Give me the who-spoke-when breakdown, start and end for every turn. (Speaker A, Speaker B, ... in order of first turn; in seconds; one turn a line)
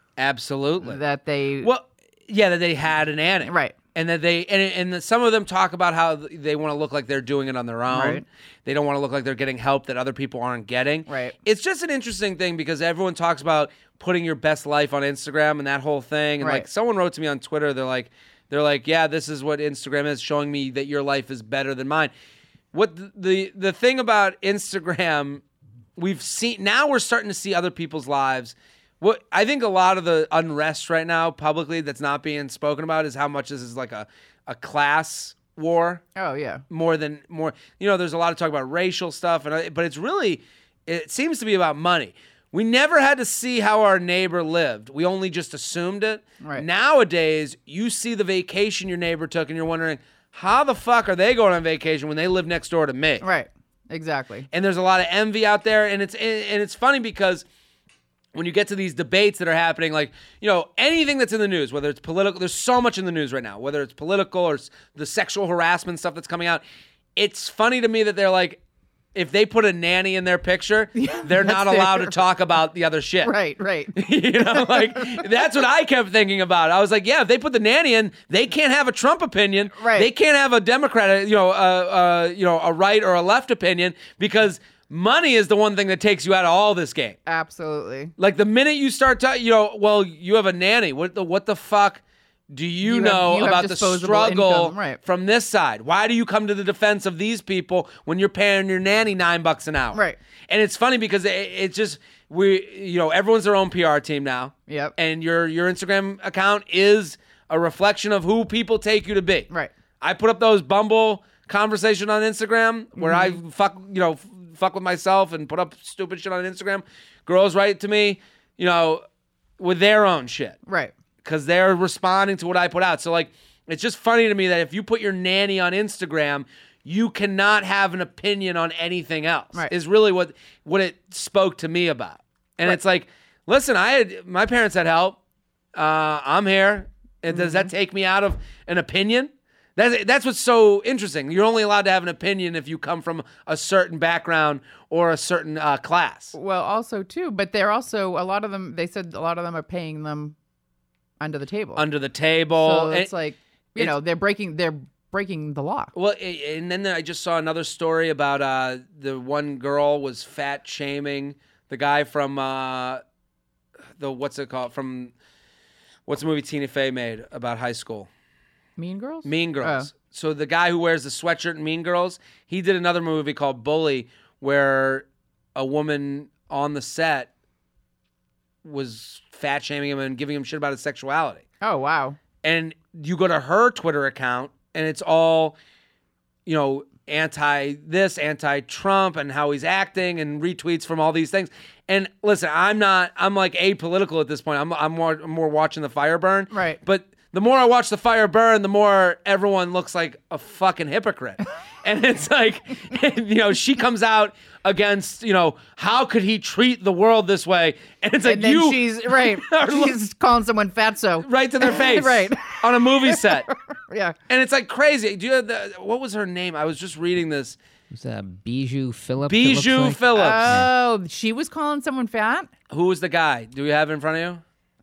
Speaker A: 0.2-1.0
Speaker B: 0.8-1.7
Speaker A: 1.6-22.1
Speaker B: 3.5-3.8
Speaker B: 7.9-8.2
Speaker B: 11.1-11.3
Speaker B: 16.4-16.7
Speaker A: 22.7-25.4
Speaker A: 26.0-36.0
Speaker B: 36.2-36.6
Speaker A: 36.7-53.2
Speaker B: 53.2-54.5
Speaker A: 54.5-57.5
Speaker A: 58.3-66.6
Speaker A: 67.2-68.6
Speaker A: 69.2-73.3
Speaker B: 71.0-72.1
Speaker B: 73.2-75.3
Speaker A: 73.9-87.2
Speaker B: 79.8-80.1
Speaker B: 87.3-88.1
Speaker A: 88.2-119.0
Speaker B: 92.8-95.0
Speaker B: 99.9-100.2
Speaker B: 104.7-105.0
Speaker B: 113.0-113.4
Speaker A: 119.6-120.6
Speaker B: 120.7-120.9
Speaker A: 121.2-135.2
Speaker A: 135.8-146.3
Speaker B: 137.3-137.7
Speaker B: 146.3-150.4
Speaker B: 151.2-151.8
Speaker A: 151.8-153.1
Speaker B: 152.6-155.9
Speaker A: 155.9-163.0
Speaker A: 164.0-165.1
Speaker A: 166.1-168.1
Speaker B: 168.8-169.9
Speaker A: 169.2-177.3
Speaker A: 178.6-181.4
Speaker B: 181.6-182.2
Speaker A: 182.4-185.6
Speaker A: 186.5-210.0
Speaker B: 196.5-196.8
Speaker B: 208.2-214.2
Speaker A: 211.2-213.5
Speaker A: 214.3-217.6
Speaker C: 217.9-220.7
Speaker A: 219.3-220.6
Speaker B: 220.2-222.5
Speaker A: 222.7-224.4